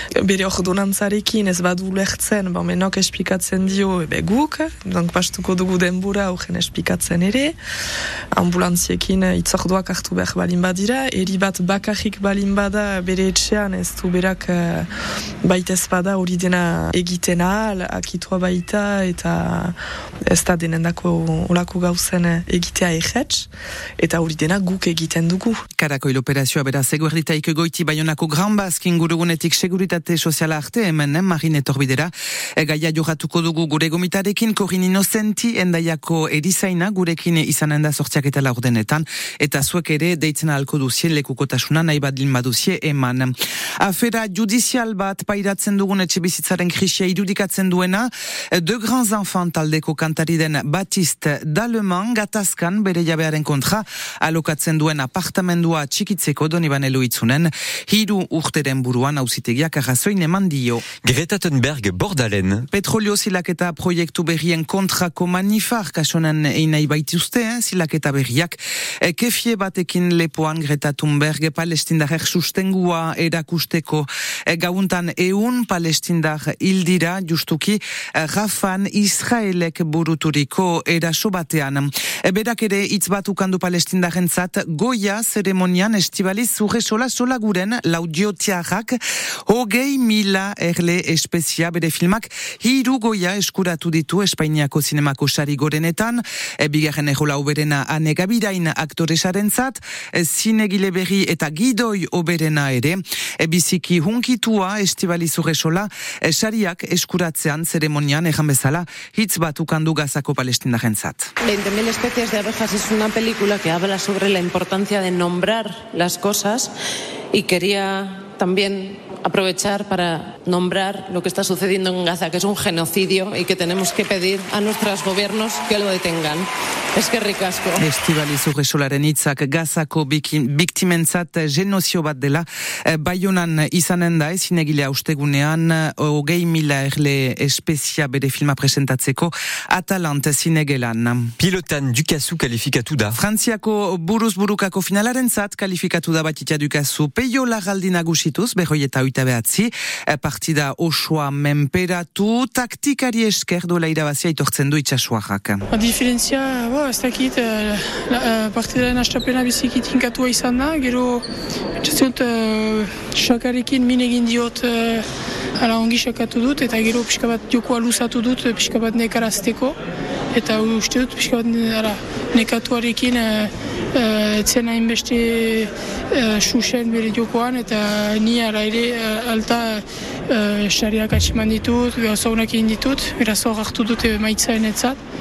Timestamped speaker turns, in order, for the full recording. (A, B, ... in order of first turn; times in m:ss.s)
0:00.2-0:07.5 A
0:08.4-0:14.9 A
0:15.4-0:19.7 A
0:20.3-0:23.5 A
0:24.0-0:25.6 A
0:25.8-1:00.8 B
1:01.0-1:02.7 C
1:02.7-1:51.3 B
1:51.4-1:56.7 D
1:57.3-2:07.8 D
2:07.8-2:21.3 B
2:21.4-2:23.2 C
2:23.1-2:35.6 B
2:35.7-2:41.2 E
2:41.8-2:45.0 E
2:45.6-2:49.8 E
2:50.3-3:05.0 E